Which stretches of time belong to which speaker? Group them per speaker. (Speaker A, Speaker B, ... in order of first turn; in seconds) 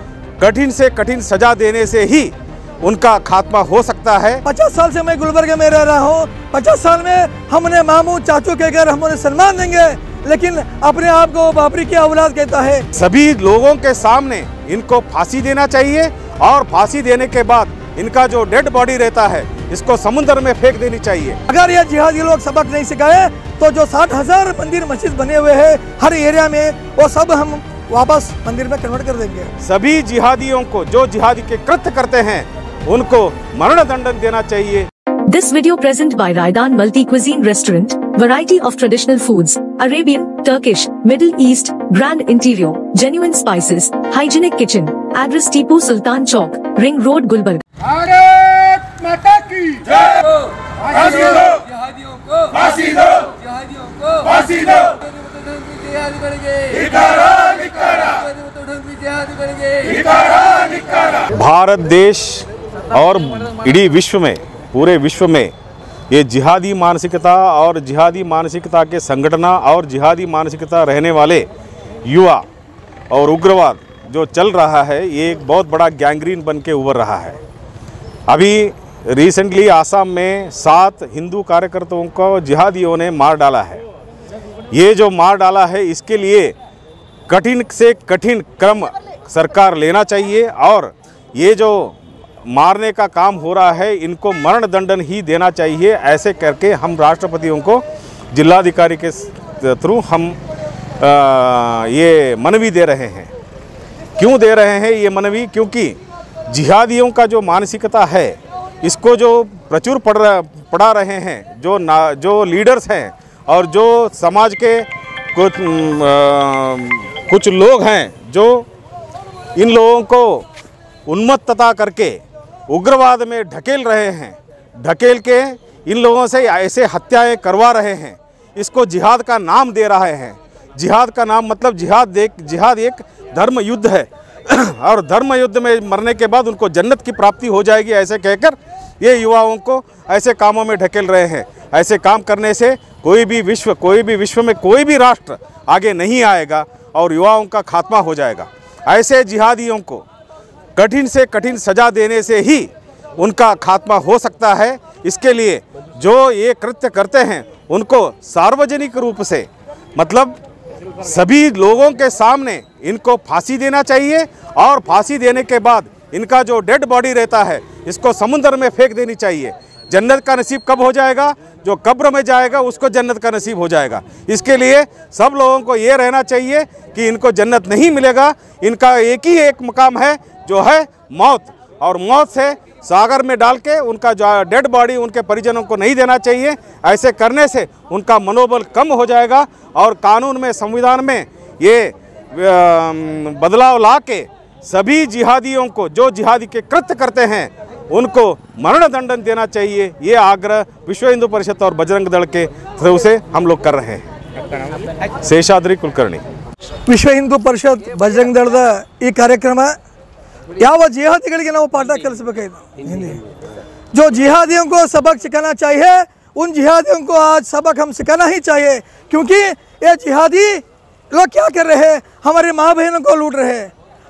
Speaker A: 0.4-4.4, 12.9-21.4, 29.6-34.9, 61.3-65.5, 66.1-71.5, 72.0-72.5, 73.1-77.4, 78.3-83.8, 84.7-86.5, 87.3-100.4, 101.0-103.3, 104.2-106.0, 106.5-118.7, 119.6-120.5, 121.1-150.1, 150.8-160.4, 161.0-204.1, 205.2-206.2
Speaker B: 4.5-12.8, 21.5-29.5, 206.9-209.8, 210.6-213.2, 213.9-223.7
Speaker C: 35.3-47.6
Speaker D: 49.6-49.8, 51.2-51.6, 52.4-60.1